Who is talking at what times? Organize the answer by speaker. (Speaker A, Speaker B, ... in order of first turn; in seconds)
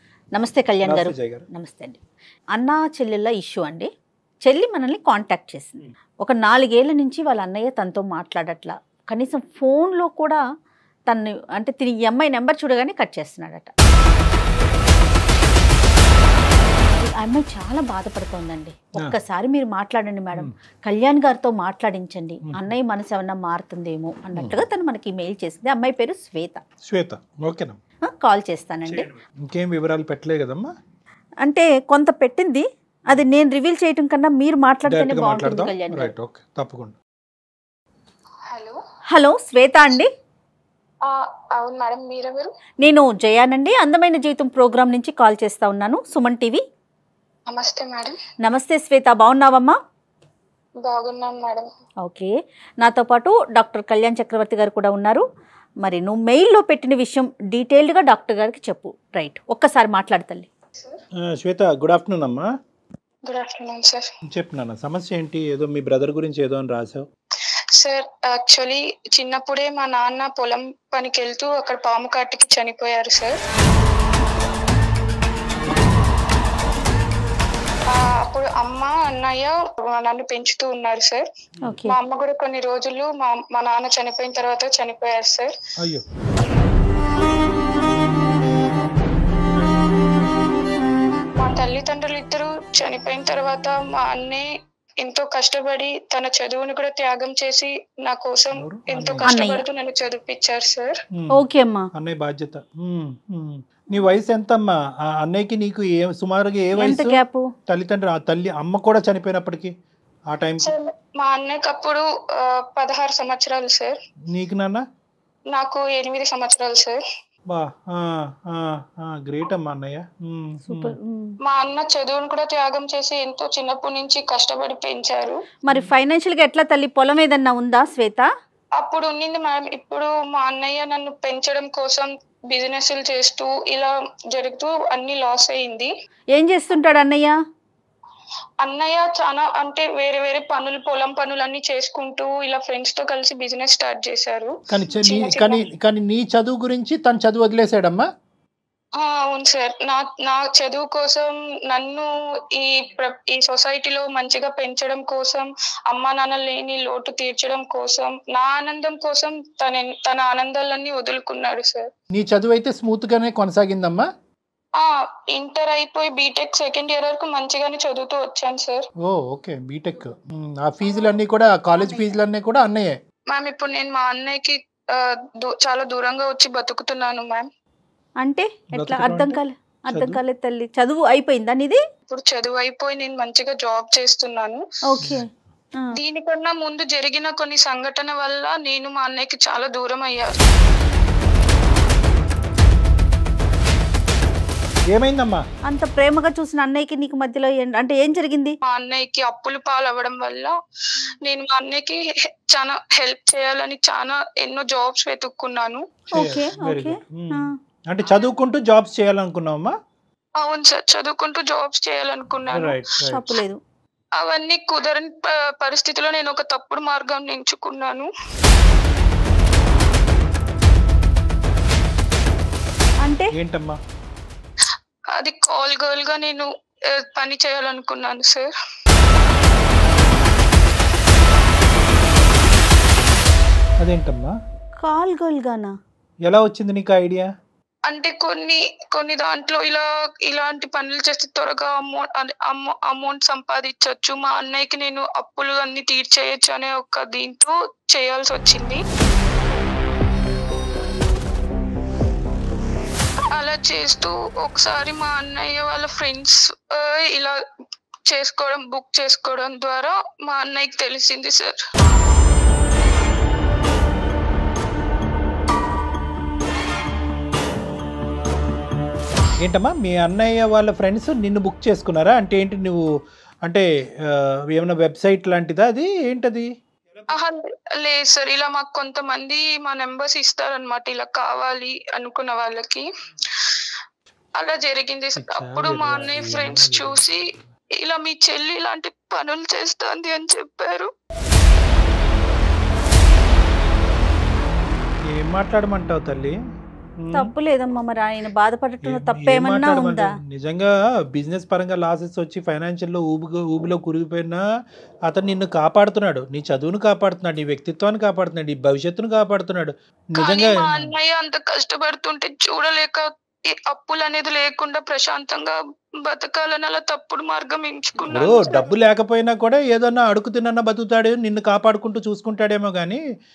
Speaker A: 0.3-2.0, 2.5-3.9, 4.4-10.4, 11.1-13.7, 17.0-26.6, 28.0-29.1, 31.4-36.1, 39.1-40.1, 42.8-46.6, 48.4-49.8, 52.0-55.2, 55.8-60.5, 81.7-81.9, 99.2-99.6, 101.3-101.9, 106.8-107.5, 120.7-121.3, 125.7-128.2, 136.3-137.3, 178.2-181.8, 184.9-185.9, 195.7-198.6, 206.2-207.5, 213.0-213.6, 223.0-223.3, 234.8-235.7, 297.1-300.1
Speaker B: 0.8-1.4, 22.5-22.7, 26.8-27.8, 28.9-30.7, 34.9-37.0, 61.2-62.5, 64.3-67.0, 98.5-99.2, 101.9-109.7, 110.3-110.7, 114.3-114.8, 117.5-120.9, 144.7-148.0, 162.1-164.1, 169.0-172.9, 178.7-179.4, 179.9-180.2, 194.9-195.4, 206.1-209.7, 212.5-213.2, 223.3-223.8, 233.8-234.3, 236.2-237.3, 269.4-272.8, 273.4-277.1, 285.2-287.0, 295.1-296.3, 297.0-297.3, 298.8-304.4, 305.1-310.9, 318.1-323.0
Speaker C: 38.5-38.8, 41.0-42.5, 47.5-48.2, 50.8-51.7, 63.2-64.1, 67.8-73.4, 77.9-81.2, 81.8-85.5, 91.4-94.5, 95.0-101.0, 110.6-114.0, 115.5-117.0, 121.4-125.4, 128.8-135.9, 138.6-145.6, 149.0-161.9, 164.8-168.9, 173.3-177.5, 182.1-184.6, 185.9-190.3, 198.6-200.5, 201.2-205.9, 210.4-212.8, 214.2-218.1, 225.2-228.5, 237.9-248.8, 253.3-257.4, 258.1-261.6, 277.1-282.9, 284.4-287.2, 287.8-290.9, 310.2-318.7